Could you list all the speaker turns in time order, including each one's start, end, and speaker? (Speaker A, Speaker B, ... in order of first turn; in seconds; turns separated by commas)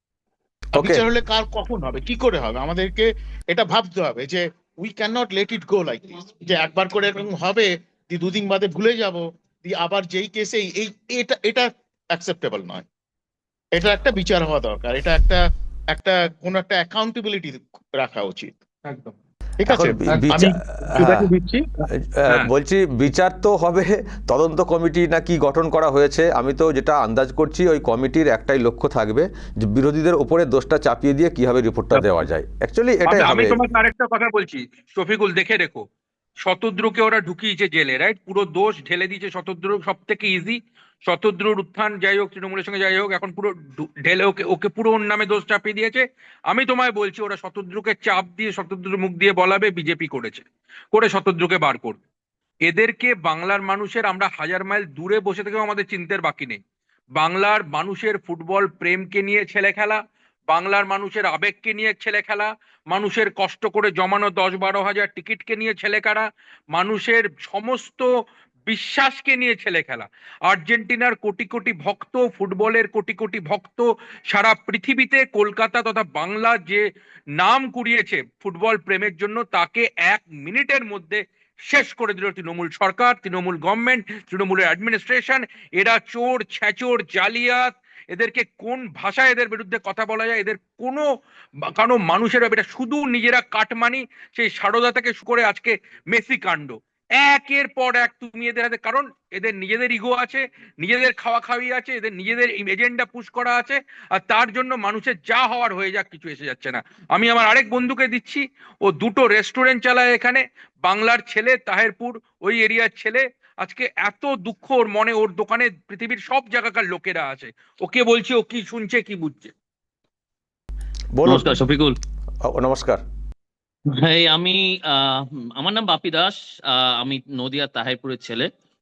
Speaker A: 0.7-12.8, Speaker B: 0.7-1.0, Speaker A: 13.7-18.5, Speaker C: 18.8-19.1, Speaker A: 19.6-21.6, Speaker B: 19.6-21.2, Speaker B: 22.1-33.6, Speaker C: 31.9-32.2, Speaker C: 33.1-35.8, Speaker C: 36.5-52.0, Speaker C: 52.6-56.6, Speaker C: 57.2-68.1, Speaker C: 68.7-76.8, Speaker C: 77.4-91.1, Speaker C: 91.7-119.5, Speaker B: 121.1-121.6, Speaker D: 121.2-122.0, Speaker B: 122.4-123.0, Speaker D: 124.0-128.5